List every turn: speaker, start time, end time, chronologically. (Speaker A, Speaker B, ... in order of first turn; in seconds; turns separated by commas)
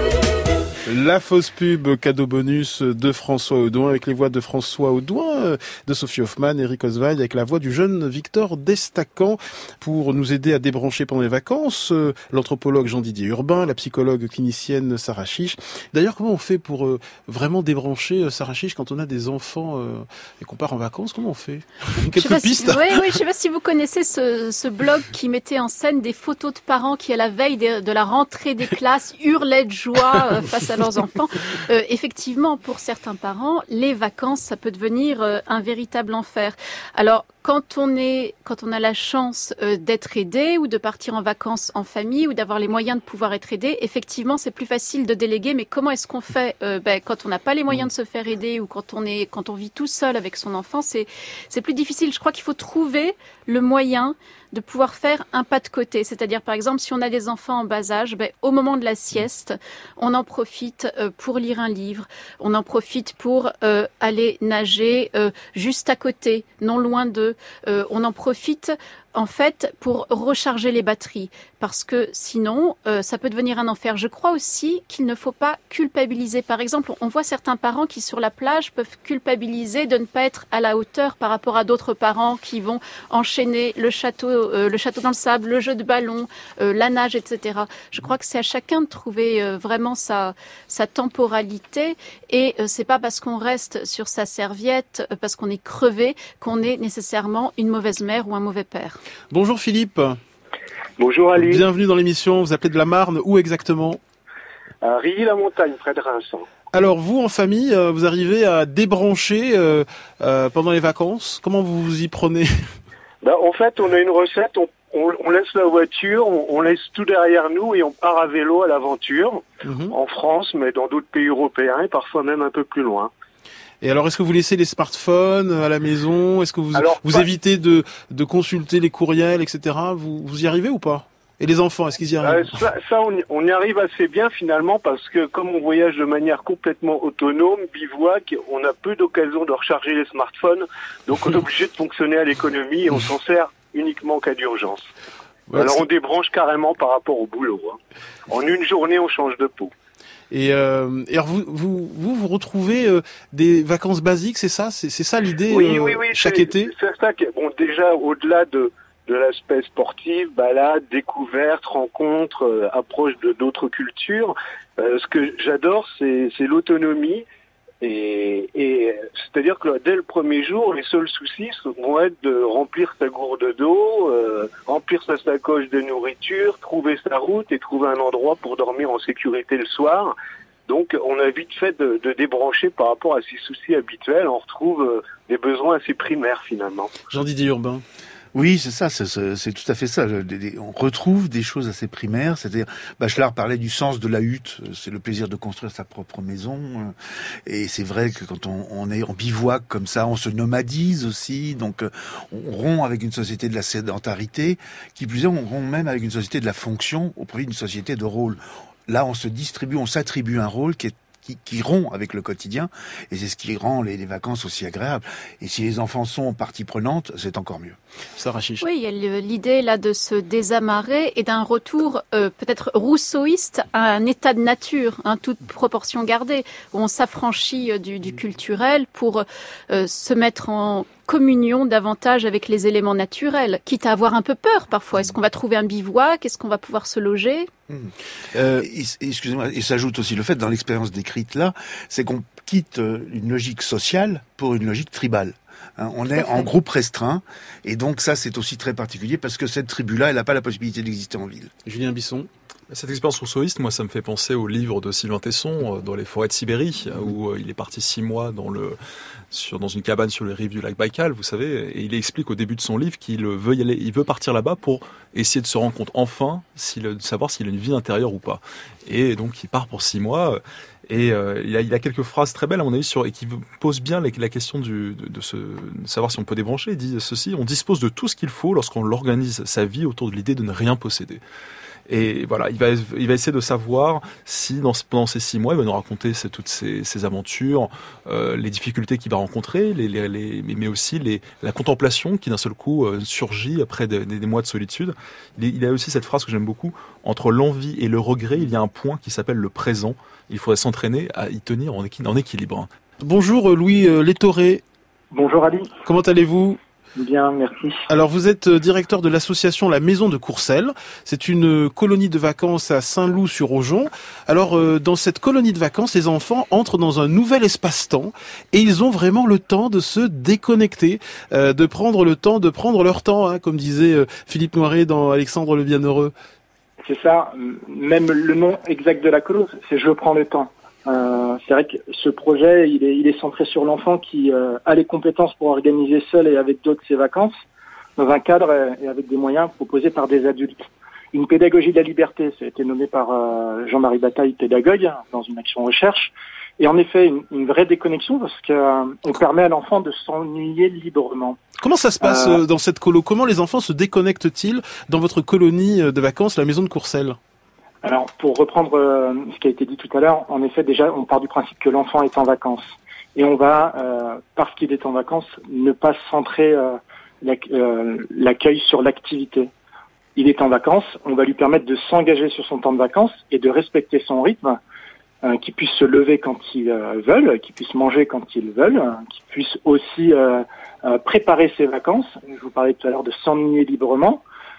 Speaker A: 0.9-23.0, Speaker B: 22.1-99.0, Speaker A: 99.3-100.2, Speaker C: 101.0-101.6, Speaker A: 101.3-104.0, Speaker C: 104.8-106.5, Speaker A: 106.7-112.5, Speaker C: 113.2-123.1, Speaker A: 119.6-119.9, Speaker A: 123.8-132.5, Speaker C: 126.7-127.2, Speaker C: 132.2-144.9, Speaker A: 145.5-145.8, Speaker C: 145.5-149.7, Speaker A: 150.3-156.7, Speaker C: 155.5-167.2, Speaker C: 167.8-180.1, Speaker C: 180.7-187.0, Speaker A: 187.1-187.8, Speaker D: 188.3-196.9, Speaker D: 197.4-217.8, Speaker A: 218.2-218.6, Speaker B: 218.6-237.5, Speaker A: 238.3-238.6, Speaker D: 238.6-251.5, Speaker A: 251.6-252.3, Speaker E: 252.7-258.8, Speaker E: 259.3-281.2, Speaker E: 281.9-302.7, Speaker A: 303.0-304.6, Speaker F: 305.1-305.7, Speaker A: 305.8-306.6, Speaker F: 307.0-307.8, Speaker A: 307.9-326.1, Speaker F: 326.8-337.4, Speaker F: 338.0-351.4, Speaker A: 351.6-357.2, Speaker F: 352.0-352.4, Speaker F: 357.8-369.5, Speaker F: 370.1-374.6, Speaker F: 375.2-384.2